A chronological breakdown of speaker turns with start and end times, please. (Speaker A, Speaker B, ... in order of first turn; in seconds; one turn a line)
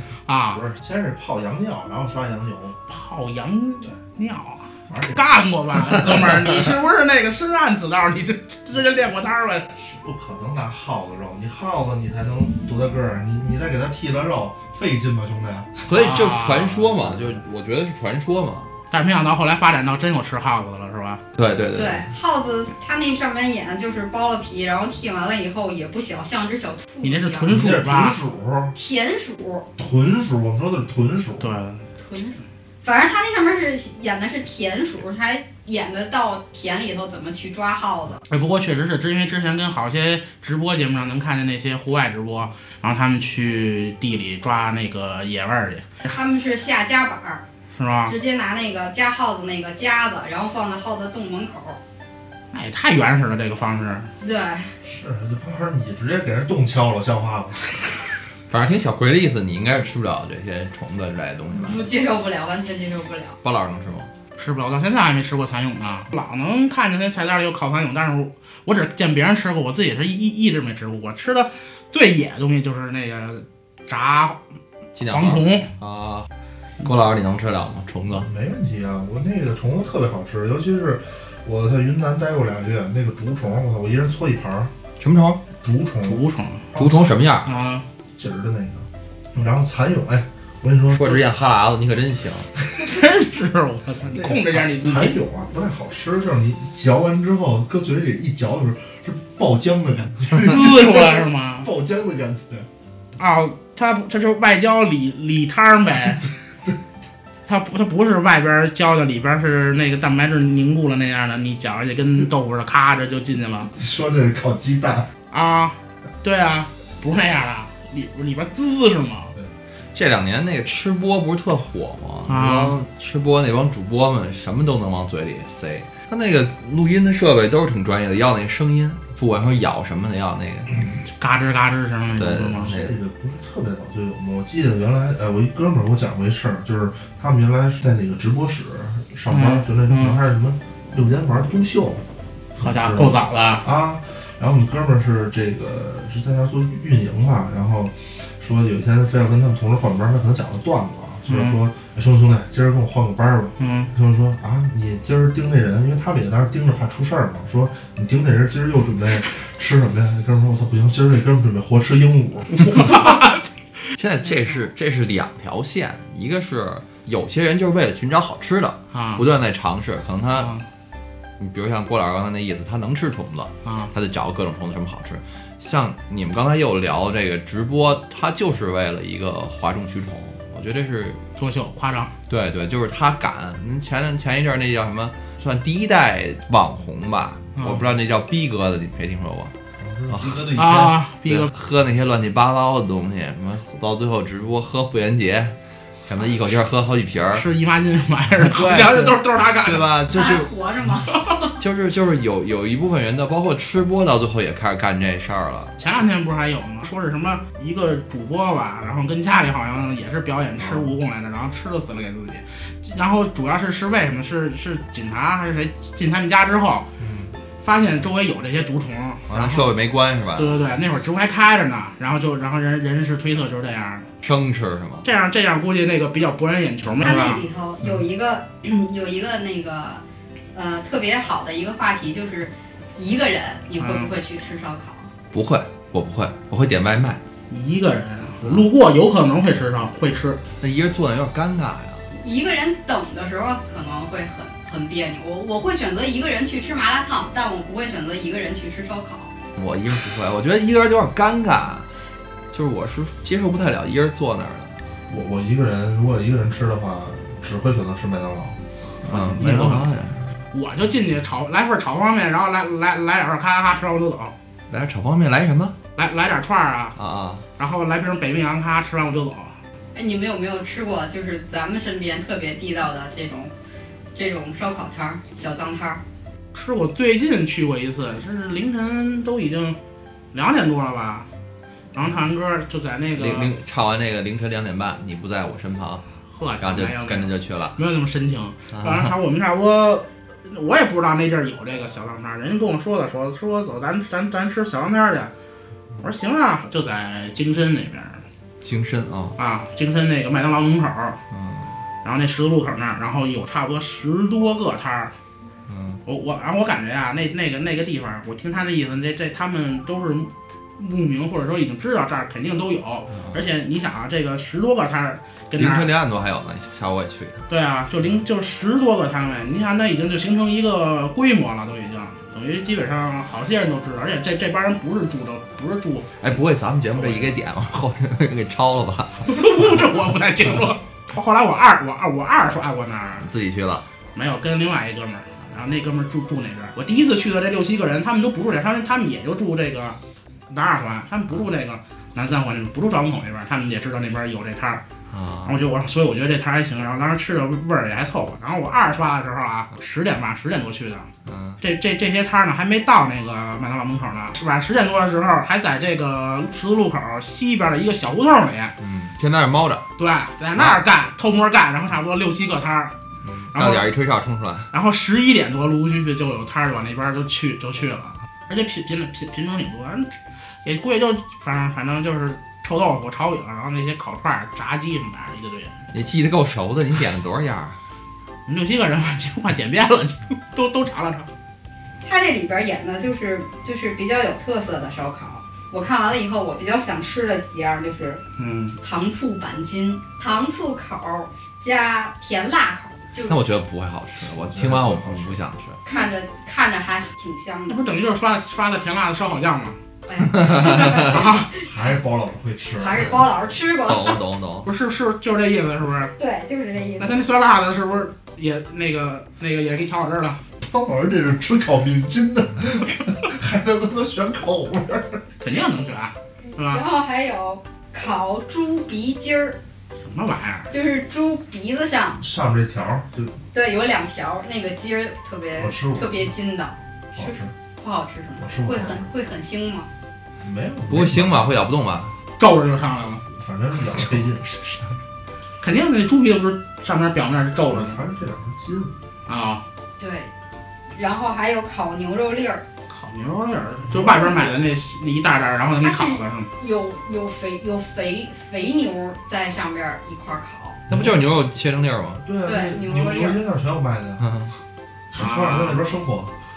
Speaker A: 0.3-0.7
Speaker B: 0.5-2.8
Speaker A: 2.9-9.7
Speaker B: 4.9-5.2
Speaker B: 9.9-15.8
Speaker C: 15.8-18.7
Speaker A: 15.9-16.9
Speaker A: 18.9-21.2
Speaker C: 21.4-22.1
Speaker D: 21.8-27.5
Speaker A: 27.0-28.2
Speaker B: 27.5-28.7
Speaker D: 28.8-29.7
Speaker B: 29.8-31.5
Speaker A: 31.4-31.9
Speaker D: 32.0-38.2
Speaker A: 38.3-46.1
Speaker D: 46.1-47.4
Speaker A: 47.7-48.1
Speaker D: 48.1-51.8
Speaker A: 52.5-54.1
Speaker D: 54.2-54.8
Speaker B: 54.8-57.8
Speaker C: 58.5-61.8
Speaker D: 61.5-63.4
Speaker C: 63.4-64.1
Speaker A: 64.4-74.4
Speaker C: 75.0-76.3
Speaker A: 75.1-75.7
Speaker C: 76.8-78.3
Speaker B: 78.2-84.7
Speaker C: 85.0-85.4
Speaker B: 85.6-86.2
Speaker A: 86.0-86.7
Speaker B: 86.7-87.1
Speaker C: 86.8-87.5
Speaker A: 87.5-87.9
Speaker B: 88.2-91.2
Speaker C: 90.9-92.5
Speaker A: 92.8-95.2
Speaker B: 94.1-102.7
Speaker A: 100.3-101.7
Speaker A: 103.2-106.2
Speaker A: 107.5-113.7
Speaker B: 113.8-115.1
Speaker A: 115.3-119.3
Speaker C: 119.9-130.8
Speaker A: 122.3-122.8
Speaker A: 131.1-132.7
Speaker C: 132.2-133.0
Speaker B: 132.6-142.0
Speaker A: 139.3-140.2
Speaker B: 142.6-162.7
Speaker A: 142.6-143.6
Speaker A: 151.3-151.6
Speaker A: 153.6-153.9
Speaker A: 162.6-163.4
Speaker C: 164.0-170.6
Speaker A: 168.9-169.2
Speaker A: 170.4-170.7
Speaker C: 171.4-181.2
Speaker A: 173.7-173.9
Speaker A: 181.4-182.1
Speaker C: 182.3-189.5
Speaker A: 187.6-187.8
Speaker B: 189.8-191.0
Speaker C: 190.1-190.4
Speaker A: 190.6-191.5
Speaker C: 191.3-195.5
Speaker C: 196.1-197.5
Speaker A: 197.3-199.9
Speaker C: 198.4-200.5
Speaker D: 200.1-201.5
Speaker C: 201.6-205.7
Speaker A: 205.8-216.9
Speaker B: 210.6-210.9
Speaker B: 217.0-217.3
Speaker A: 217.6-219.7
Speaker C: 219.3-220.6
Speaker A: 220.4-224.1
Speaker C: 224.2-225.1
Speaker A: 225.0-227.4
Speaker D: 227.0-230.0
Speaker D: 230.5-235.1
Speaker A: 233.8-234.1
Speaker C: 235.3-237.2
Speaker A: 237.5-240.4
Speaker C: 238.4-238.7
Speaker C: 240.6-242.1
Speaker D: 242.2-249.3
Speaker C: 249.6-251.9
Speaker C: 252.5-254.8
Speaker B: 255.1-259.9
Speaker C: 259.1-260.2
Speaker A: 259.4-259.8
Speaker A: 260.5-264.4
Speaker C: 264.7-265.7
Speaker A: 266.0-267.0
Speaker C: 267.0-267.4
Speaker A: 267.6-269.6
Speaker D: 269.9-273.5
Speaker D: 274.1-276.0
Speaker A: 276.5-279.8
Speaker A: 280.3-281.3
Speaker A: 281.9-283.5
Speaker C: 283.2-286.0
Speaker A: 286.3-295.3
Speaker C: 286.6-287.8
Speaker C: 288.7-289.1
Speaker A: 296.0-298.2
Speaker C: 298.6-299.4
Speaker A: 299.4-301.2
Speaker C: 301.3-301.7
Speaker A: 302.0-305.1
Speaker C: 305.7-306.0
Speaker A: 306.1-315.9
Speaker C: 313.1-313.4
Speaker C: 315.6-317.5
Speaker A: 317.5-326.2
Speaker C: 326.2-329.7
Speaker A: 326.9-327.3
Speaker A: 329.3-333.3
Speaker C: 333.2-333.9
Speaker A: 334.1-344.8
Speaker C: 345.1-345.6
Speaker A: 345.4-351.1
Speaker C: 351.3-351.6
Speaker A: 351.6-358.7
Speaker C: 358.8-359.9
Speaker A: 360.0-362.9
Speaker C: 360.5-360.8
Speaker C: 363.2-364.7
Speaker A: 363.5-363.9
Speaker A: 364.7-375.8
Speaker C: 375.9-377.8
Speaker A: 378.5-381.3
Speaker D: 382.0-388.2
Speaker A: 388.4-388.8
Speaker D: 388.8-393.4
Speaker C: 393.2-395.8
Speaker B: 394.5-395.4
Speaker D: 395.9-397.8
Speaker A: 397.7-399.8
Speaker D: 400.1-401.7
Speaker C: 400.4-401.2
Speaker A: 400.6-401.5
Speaker B: 401.6-403.2
Speaker D: 402.8-404.2
Speaker C: 403.9-404.7
Speaker A: 404.6-406.1
Speaker D: 406.2-407.2
Speaker A: 407.0-410.4
Speaker B: 410.6-415.2
Speaker A: 415.4-416.8
Speaker D: 416.7-419.6
Speaker A: 420.0-420.7
Speaker D: 420.7-422.2
Speaker B: 422.2-423.4
Speaker D: 423.5-429.9
Speaker B: 425.6-426.3
Speaker B: 427.1-427.5
Speaker B: 428.4-429.1
Speaker B: 430.4-431.5
Speaker C: 430.9-432.1
Speaker A: 432.4-433.2
Speaker B: 433.3-434.4
Speaker A: 435.6-438.0
Speaker B: 437.6-439.0
Speaker A: 439.3-439.6
Speaker D: 440.0-440.3
Speaker D: 440.9-442.6
Speaker A: 442.9-446.5
Speaker B: 443.9-444.4
Speaker D: 445.8-450.8
Speaker B: 450.9-451.2
Speaker C: 450.9-452.2
Speaker B: 452.2-454.3
Speaker D: 452.4-453.4
Speaker C: 454.2-454.5
Speaker B: 455.1-456.3
Speaker A: 455.1-455.8